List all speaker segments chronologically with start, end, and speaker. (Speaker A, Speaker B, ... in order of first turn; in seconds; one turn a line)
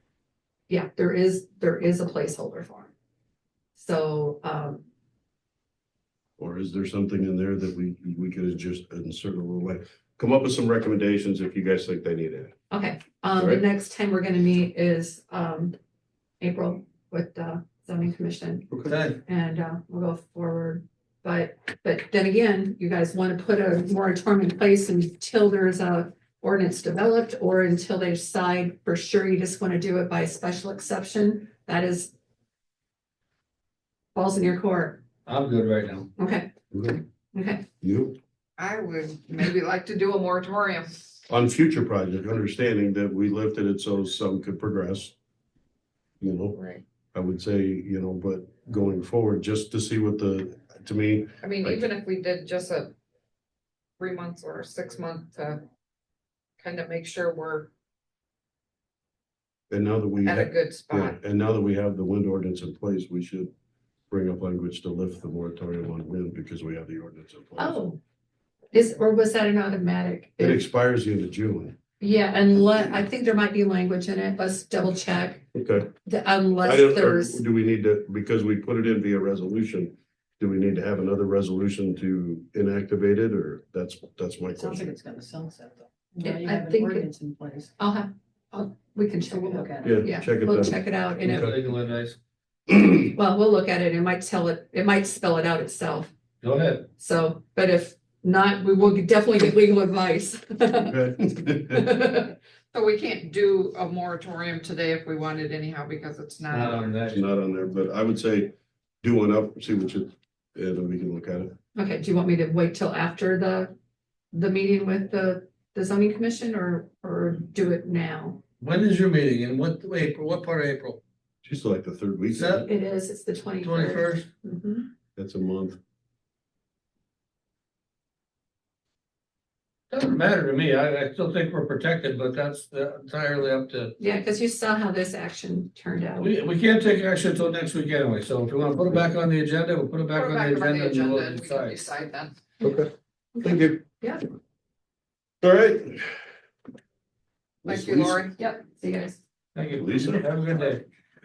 Speaker A: 0.7-2.9
Speaker A: 3.8-4.8
Speaker B: 6.4-12.5
Speaker A: 12.7-15.8
Speaker B: 13.3-13.6
Speaker A: 16.4-32.1
Speaker C: 18.9-19.2
Speaker A: 34.1-35.0
Speaker C: 35.3-36.1
Speaker A: 36.2-36.5
Speaker B: 36.7-37.0
Speaker A: 37.3-37.6
Speaker B: 37.8-38.2
Speaker D: 38.6-40.9
Speaker B: 41.3-45.1
Speaker B: 46.2-46.6
Speaker D: 46.5-46.8
Speaker B: 47.1-51.9
Speaker D: 51.4-52.9
Speaker D: 54.0-55.6
Speaker D: 56.6-57.7
Speaker B: 59.7-63.5
Speaker D: 60.2-61.2
Speaker B: 64.1-67.8
Speaker A: 67.6-68.0
Speaker A: 68.7-70.6
Speaker B: 70.4-71.8
Speaker A: 72.0-75.4
Speaker B: 75.5-75.9
Speaker A: 76.1-77.4
Speaker B: 76.6-84.9
Speaker E: 84.5-87.7
Speaker A: 86.2-87.1
Speaker A: 87.8-91.5
Speaker E: 89.4-90.0
Speaker B: 89.8-91.6
Speaker C: 91.2-92.2
Speaker A: 92.9-96.1
Speaker C: 96.4-96.9
Speaker A: 97.0-102.4
Speaker B: 100.8-101.9
Speaker D: 102.7-107.0
Speaker C: 106.5-107.3
Speaker B: 107.1-111.6
Speaker A: 111.8-113.7
Speaker A: 114.3-118.4
Speaker C: 118.6-121.0
Speaker B: 121.4-122.7
Speaker C: 122.3-122.7
Speaker A: 122.7-124.9
Speaker C: 123.6-124.3
Speaker B: 125.2-125.8
Speaker C: 129.9-134.0
Speaker A: 134.0-136.3
Speaker C: 136.2-141.8
Speaker D: 140.1-142.4
Speaker B: 142.6-142.9
Speaker A: 143.3-144.2
Speaker B: 143.4-143.8
Speaker B: 145.4-146.1
Speaker D: 147.7-148.4
Speaker B: 147.7-148.3
Speaker A: 148.4-149.2
Speaker C: 149.6-150.8
Speaker B: 149.8-150.3